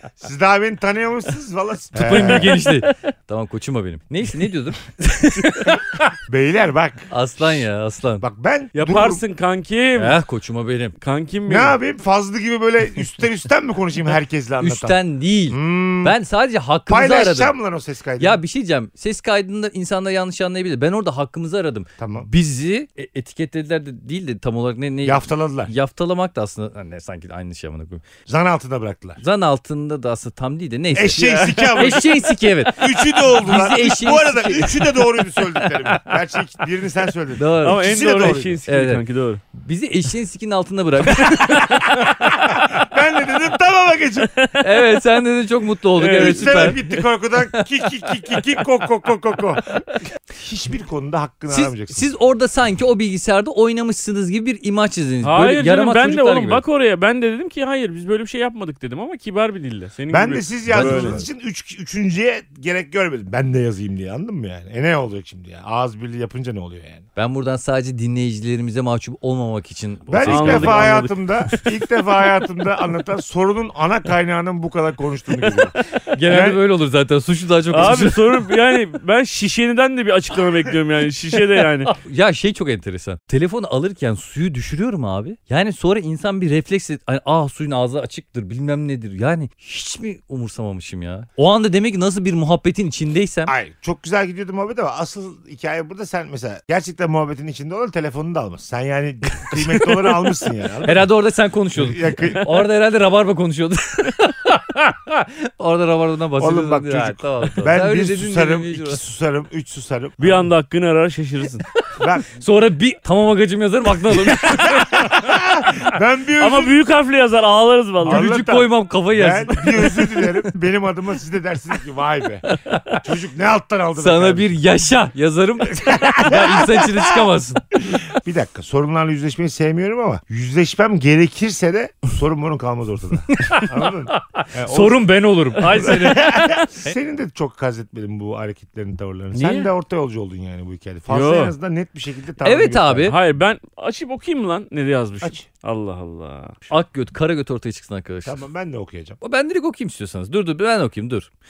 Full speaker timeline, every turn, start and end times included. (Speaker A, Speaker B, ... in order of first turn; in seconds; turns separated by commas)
Speaker A: 0.2-2.6, Speaker B: 1.9-6.2, Speaker C: 2.1-3.0, Speaker A: 6.3-7.7, Speaker B: 7.1-8.2, Speaker A: 8.2-9.2, Speaker C: 8.7-10.2, Speaker B: 10.0-11.0, Speaker C: 11.0-11.8, Speaker A: 11.5-15.0, Speaker B: 14.6-17.6, Speaker A: 15.5-16.2, Speaker A: 16.9-18.4, Speaker B: 18.2-28.1, Speaker A: 22.0-22.3, Speaker A: 25.0-25.7, Speaker A: 28.3-29.2, Speaker B: 29.2-35.1, Speaker A: 30.9-32.1, Speaker C: 31.1-32.1, Speaker A: 32.7-38.6, Speaker B: 37.4-37.9, Speaker C: 37.6-39.4, Speaker B: 38.6-39.0, Speaker B: 39.5-42.3, Speaker A: 42.2-44.3, Speaker C: 44.3-45.0, Speaker B: 44.6-46.8, Speaker C: 46.0-47.0, Speaker A: 46.1-52.1, Speaker B: 47.5-48.4, Speaker B: 51.5-56.6, Speaker C: 55.2-61.2, Speaker A: 60.1-67.0, Speaker B: 60.7-61.2, Speaker B: 67.2-71.1, Speaker A: 70.1-76.6, Speaker C: 70.2-71.7, Speaker B: 76.1-78.5, Speaker C: 77.7-82.0, Speaker B: 81.9-93.5, Speaker A: 93.5-101.1, Speaker B: 99.5-100.2, Speaker B: 100.8-109.0, Speaker A: 101.8-102.5, Speaker A: 106.4-110.5, Speaker C: 110.2-111.7, Speaker A: 112.0-112.3, Speaker B: 112.3-115.4, Speaker A: 114.5-116.8, Speaker C: 116.4-118.3, Speaker A: 118.0-124.6, Speaker B: 118.0-120.4, Speaker B: 122.5-123.0, Speaker B: 124.0-127.7, Speaker A: 125.8-127.3, Speaker A: 127.8-135.0, Speaker B: 133.3-136.9, Speaker A: 135.7-143.1, Speaker C: 139.3-139.7, Speaker C: 141.1-141.6, Speaker B: 142.4-143.2, Speaker C: 143.1-146.6, Speaker B: 146.7-148.4, Speaker A: 148.2-149.2, Speaker B: 149.2-151.3